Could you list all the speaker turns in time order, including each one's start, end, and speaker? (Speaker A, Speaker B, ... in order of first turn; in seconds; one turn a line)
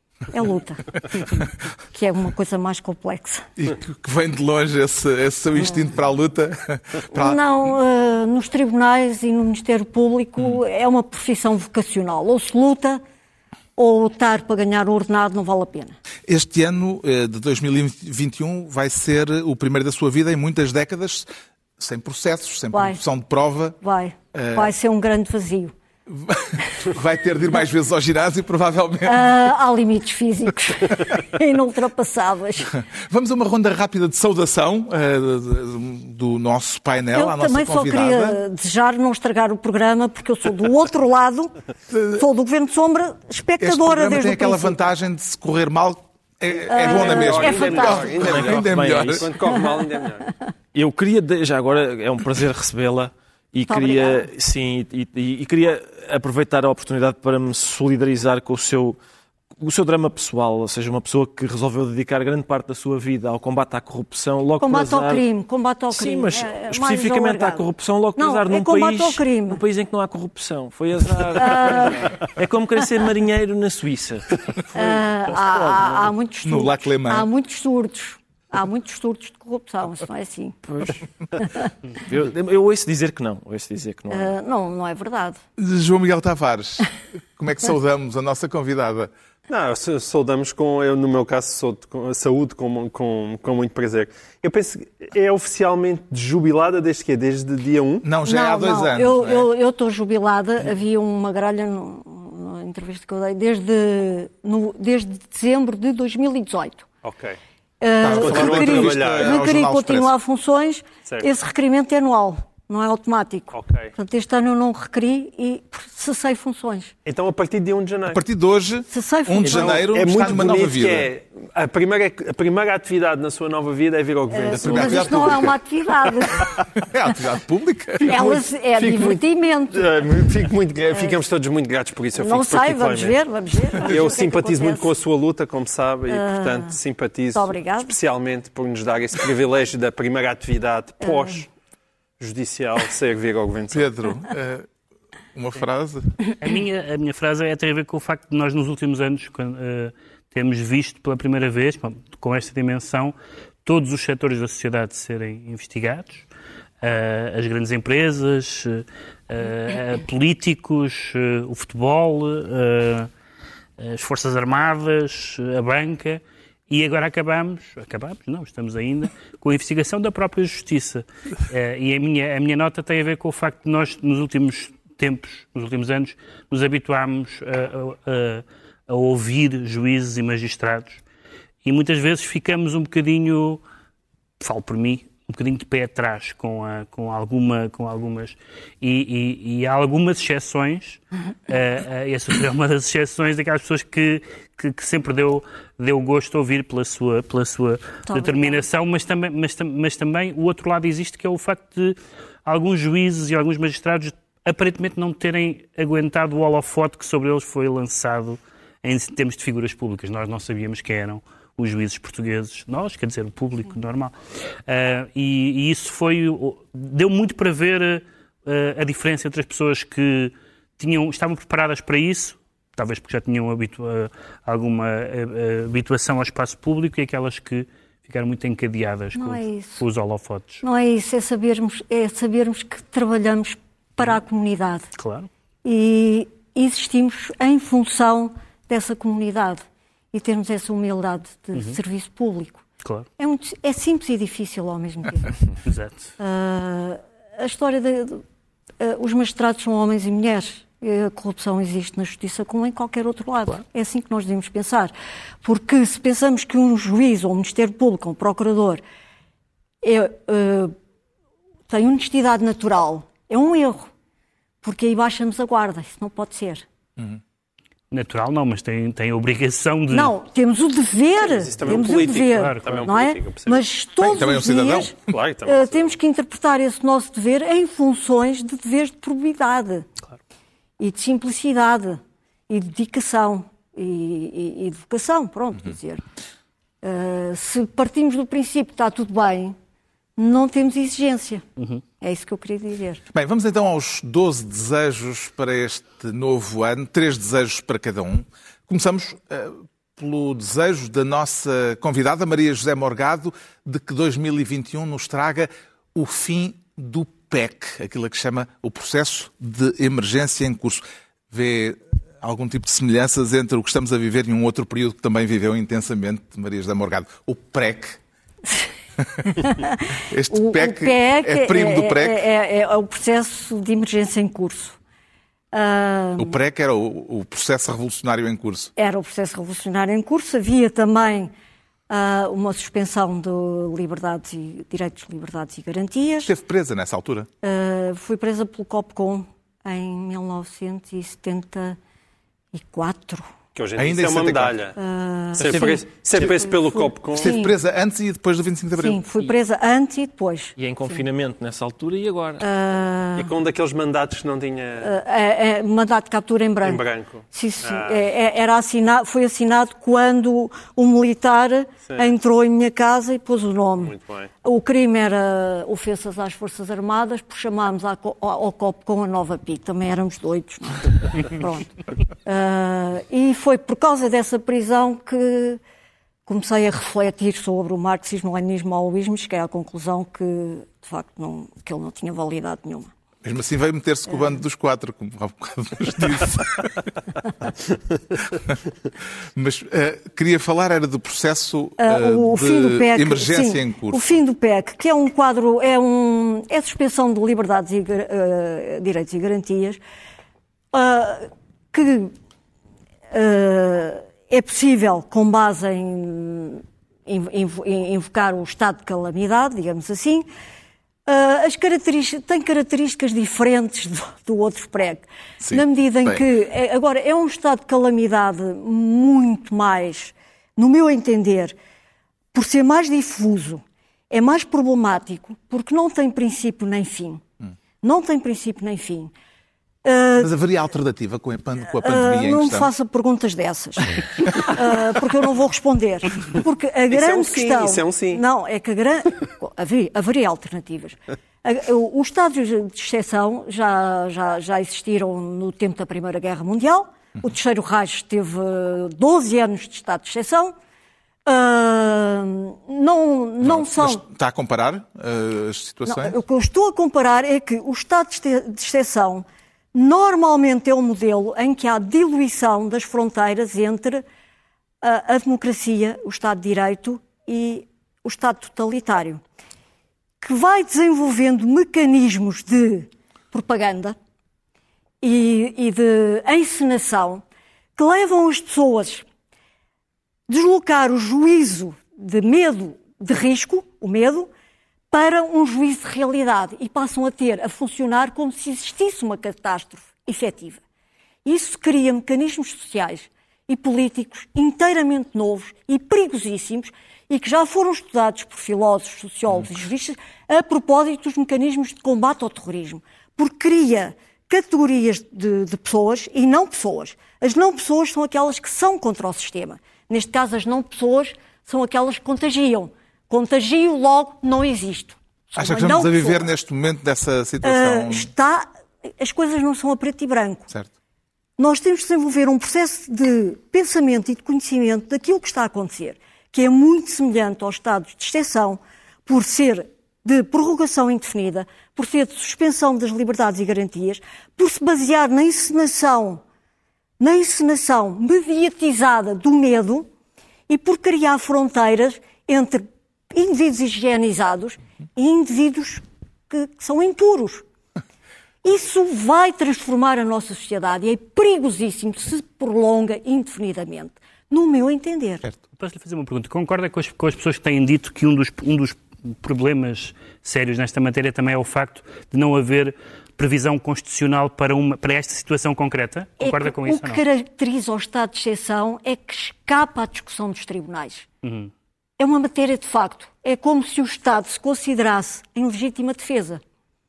Speaker A: 0.3-3.5
Speaker B: 3.6-7.4
Speaker A: 7.2-13.0
Speaker A: 13.8-16.0
Speaker B: 16.3-23.8
Speaker A: 22.7-23.0
Speaker A: 23.8-25.7
Speaker B: 24.3-24.7
Speaker B: 26.1-29.3
Speaker A: 29.1-32.8
Speaker B: 32.7-38.4
Speaker A: 37.1-41.5
Speaker B: 41.9-42.2
Speaker A: 42.1-44.8
Speaker B: 43.6-49.3
Speaker A: 46.7-48.3
Speaker C: 46.8-50.3
Speaker D: 48.2-49.3
Speaker D: 50.7-59.0
Speaker A: 53.7-54.3
Speaker D: 59.6-65.2
Speaker A: 64.6-69.6
Speaker D: 65.9-76.1
Speaker A: 71.4-72.1
Speaker A: 74.7-81.7
Speaker B: 76.4-77.3
Speaker D: 80.7-81.0
Speaker D: 82.0-84.3
Speaker A: 84.1-85.4
Speaker B: 85.6-89.1
Speaker C: 89.5-98.1
Speaker B: 98.0-99.5
Speaker A: 98.2-106.9
Speaker C: 107.0-107.4
Speaker A: 107.8-116.9
Speaker B: 108.0-110.1
Speaker C: 108.1-109.4
Speaker C: 113.5-113.9
Speaker C: 117.0-118.2
Speaker B: 118.1-121.1
Speaker A: 118.9-119.8
Speaker C: 119.5-125.5
Speaker A: 124.3-126.5
Speaker B: 124.5-125.6
Speaker B: 126.7-128.2
Speaker A: 128.0-129.9
Speaker C: 128.1-129.2
Speaker C: 129.7-133.2
Speaker A: 132.2-134.9
Speaker C: 133.8-141.5
Speaker A: 136.1-136.8
Speaker A: 137.3-137.9
Speaker A: 141.0-141.3
Speaker C: 142.2-143.9
Speaker B: 143.7-144.7
Speaker B: 145.3-146.2
Speaker E: 146.4-153.1
Speaker E: 153.7-156.2
Speaker E: 156.8-163.1
Speaker E: 163.8-181.0
Speaker E: 181.7-183.6
Speaker E: 184.4-214.1
Speaker A: 198.1-198.6
Speaker E: 214.7-230.6
Speaker A: 229.2-229.8
Speaker A: 230.6-234.9
Speaker E: 235.0-235.3
Speaker A: 235.7-242.6
Speaker A: 243.2-245.4
Speaker E: 245.7-246.0
Speaker A: 246.2-248.2
Speaker A: 248.8-258.8
Speaker A: 259.8-260.8
Speaker A: 261.7-263.9
Speaker A: 264.6-266.6
Speaker E: 267.9-270.1
Speaker A: 269.9-274.9
Speaker C: 271.2-273.6
Speaker E: 271.7-272.9
Speaker B: 274.0-275.1
Speaker C: 275.1-275.9
Speaker A: 275.5-279.9
Speaker A: 280.8-286.0
Speaker A: 286.8-289.6
Speaker A: 290.2-291.4
Speaker A: 292.0-293.0
Speaker B: 293.1-318.0
Speaker A: 319.4-324.8
Speaker B: 320.1-322.2
Speaker A: 325.5-326.4
Speaker B: 326.2-328.7
Speaker A: 328.8-331.3
Speaker A: 331.9-336.3
Speaker B: 336.2-337.3
Speaker A: 337.4-341.8
Speaker A: 342.5-343.3
Speaker C: 343.6-344.8
Speaker B: 343.8-344.6
Speaker A: 344.8-345.8
Speaker C: 345.4-347.3
Speaker D: 345.4-346.9
Speaker B: 347.1-349.0
Speaker A: 347.2-347.5
Speaker A: 348.8-351.0
Speaker D: 350.6-352.4
Speaker A: 352.4-353.3
Speaker C: 353.2-354.9
Speaker A: 354.8-375.6
Speaker C: 356.6-358.0
Speaker C: 361.9-362.1
Speaker C: 363.8-364.3
Speaker A: 376.3-382.9
Speaker B: 383.2-386.9
Speaker B: 388.3-388.6
Speaker B: 389.4-394.0
Speaker A: 391.8-399.8
Speaker A: 400.7-402.1
Speaker A: 403.1-410.3
Speaker A: 411.1-421.6
Speaker B: 415.4-416.2
Speaker A: 422.3-427.2
Speaker A: 427.8-429.1
Speaker A: 429.8-430.3
Speaker B: 430.2-432.7
Speaker A: 431.8-450.5
Speaker C: 436.9-438.2
Speaker A: 451.3-454.0
Speaker B: 453.4-456.2
Speaker A: 455.9-464.0
Speaker A: 464.8-469.2
Speaker A: 470.2-474.0
Speaker A: 475.0-477.2
Speaker A: 477.8-479.1
Speaker A: 480.3-484.3
Speaker A: 484.9-490.6
Speaker A: 491.2-516.3
Speaker B: 515.4-518.1
Speaker A: 517.4-520.5
Speaker A: 521.4-536.2
Speaker A: 537.0-539.9
Speaker A: 540.5-547.5
Speaker A: 548.4-555.3
Speaker E: 555.5-567.0
Speaker A: 566.2-571.1
Speaker E: 571.2-571.5
Speaker A: 572.0-576.4